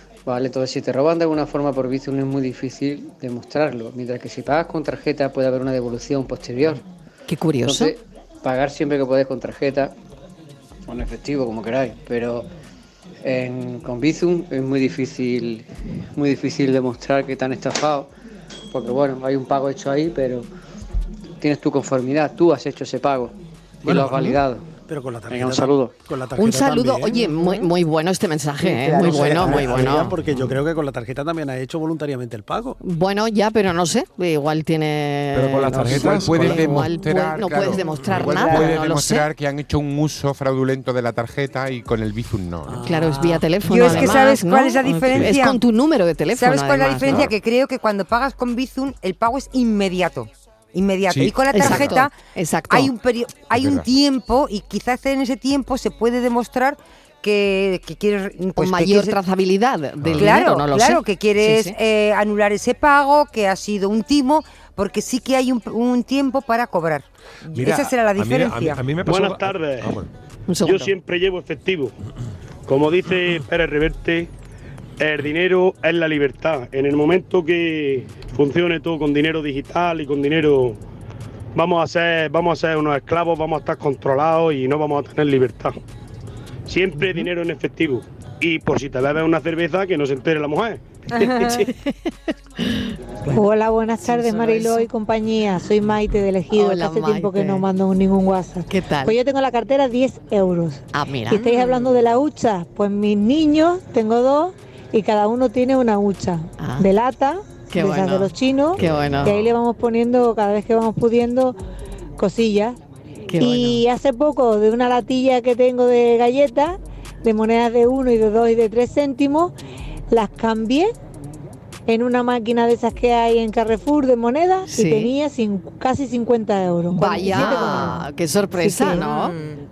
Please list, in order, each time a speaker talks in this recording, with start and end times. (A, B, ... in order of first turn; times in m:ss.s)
0:00.2-0:06.8 A
0:07.3-0:07.9 B
0:07.6-0:09.9 A
0:10.9-0:12.5 A
0:13.2-0:18.1 A
0:18.7-0:20.5 A
0:21.4-0:24.6 A
0:23.8-0:27.3 C
0:25.3-0:25.9 A
0:26.4-0:30.1 B
0:28.6-0:32.8 C
0:28.8-0:30.0 D
0:32.8-0:39.3 B
0:35.3-0:36.8 E
0:35.7-0:42.9 F
0:38.2-0:38.7 D
0:42.7-0:43.4 C
0:42.8-0:47.3 B
0:43.6-0:45.6 D
0:46.3-0:52.1 D
0:51.5-0:52.9 B
0:52.7-0:59.2 D
0:53.5-0:53.9 F
0:58.6-1:01.8 B
1:00.0-1:00.3 E
1:00.2-1:08.8 D
1:07.5-1:10.1 E
1:09.0-1:10.0 G
1:10.5-1:10.9 B
1:10.6-1:11.9 G
1:12.7-1:14.3 G
1:15.0-1:20.8 G
1:21.6-1:25.7 G
1:26.7-1:31.6 G
1:31.3-1:31.6 D
1:31.7-1:31.9 B
1:32.6-1:32.9 B
1:33.3-1:51.6 H
1:34.0-1:34.9 B
1:36.5-1:37.6 B
1:38.7-1:39.2 B
1:40.9-1:41.8 B
1:46.6-1:46.9 B
1:47.7-1:49.4 B
1:48.8-1:49.4 E
1:52.2-1:52.8 H
1:53.3-1:53.8 B
1:53.4-1:59.6 H
2:00.1-2:00.9 H
2:01.9-2:09.1 H
2:04.7-2:05.1 B
2:06.9-2:09.4 B
2:09.0-2:09.6 D